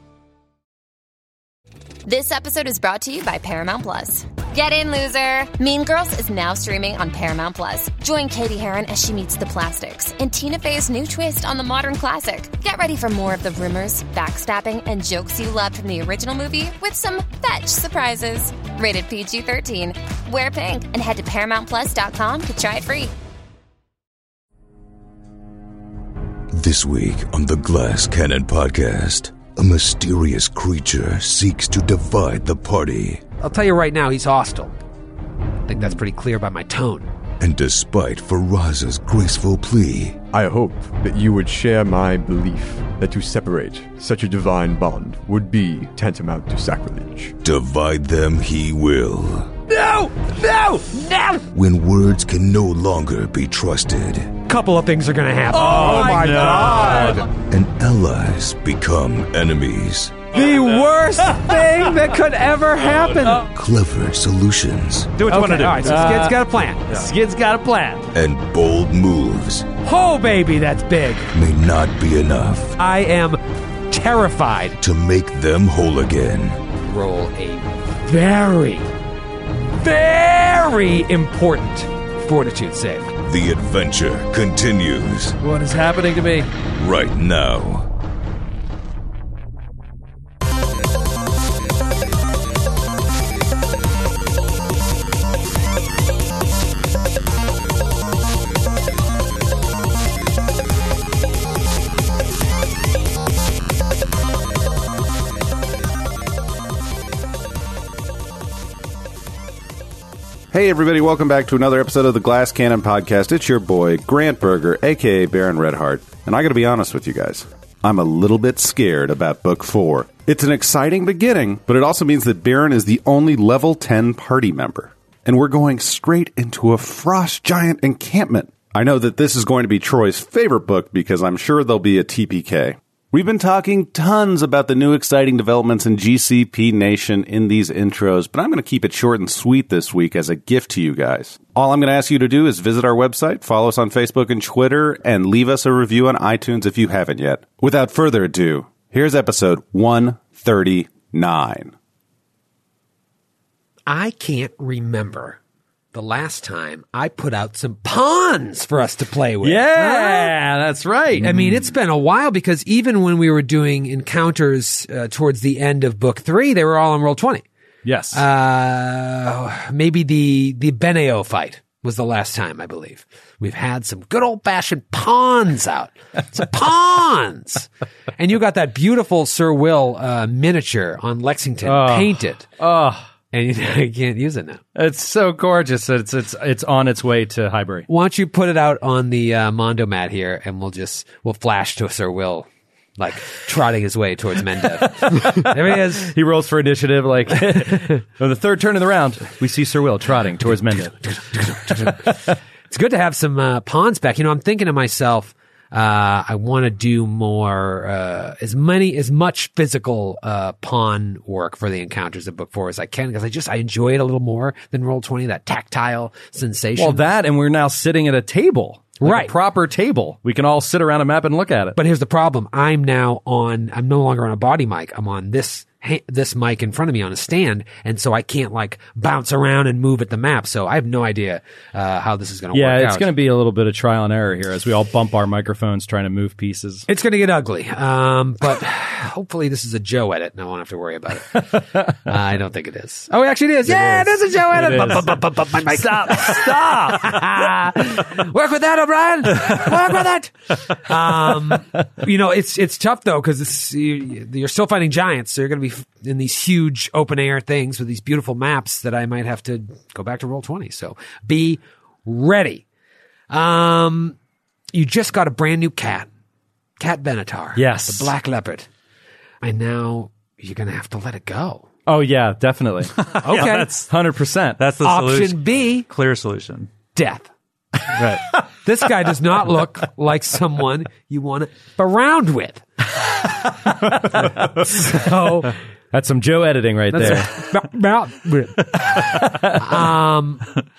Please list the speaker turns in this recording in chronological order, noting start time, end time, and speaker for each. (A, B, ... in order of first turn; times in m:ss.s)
0:02.0-0:23.1 A
0:26.5-0:33.2 B
0:33.4-0:34.7 C
0:35.7-0:37.1 C
0:37.4-0:40.2 B
0:40.3-0:47.3 D
0:47.4-0:49.5 B
0:49.7-0:51.4 C
0:51.5-0:54.3 B
0:54.5-0:57.2 C
0:55.5-0:57.2 E
0:56.0-0:57.1 F
0:57.4-1:00.2 B
1:00.3-1:03.4 C
1:03.4-1:05.1 B
1:05.2-1:06.8 C
1:05.3-1:06.1 E
1:05.3-1:08.1 G
1:08.1-1:09.7 B
1:09.8-1:11.3 C
1:11.3-1:12.8 B
1:12.8-1:14.8 C
1:14.8-1:16.6 B
1:16.8-1:18.9 C
1:19.7-1:23.1 C
1:23.2-1:25.4 B
1:25.4-1:26.5 G
1:26.7-1:27.9 B
1:50.5-2:31.7 F
2:33.9-2:35.4 C
2:35.9-2:40.3 C
2:39.4-2:41.4 G
2:41.2-2:47.4 C
2:47.8-2:48.2 G
2:48.1-3:02.5 C
3:01.6-3:03.1 G
3:03.3-3:04.6 C
3:04.7-3:07.8 G
3:07.9-3:16.1 C
3:15.1-3:22.1 G
3:21.3-3:22.1 C
3:22.7-3:37.1 C
3:36.8-3:41.8 G
3:39.0-3:39.3 C
3:41.8-3:53.1 C
3:52.5-3:56.9 G
3:56.9-4:22.6 C
4:03.6-4:07.3 G
4:23.3-4:24.2 C
4:24.7-4:26.1 C
4:26.8-4:28.7 C
4:27.6-4:28.1 G
4:29.4-4:31.6 C
4:31.8-4:34.6 G
4:33.0-4:33.9 E
4:33.2-4:33.7 C
4:34.6-4:36.7 E
4:34.8-4:35.8 C
4:36.9-4:37.3 C
4:37.9-4:38.2 E
4:38.6-4:42.7 C
4:44.6-4:45.6 C
4:45.9-4:47.4 G
4:46.9-4:50.5 C
4:48.7-4:49.8 G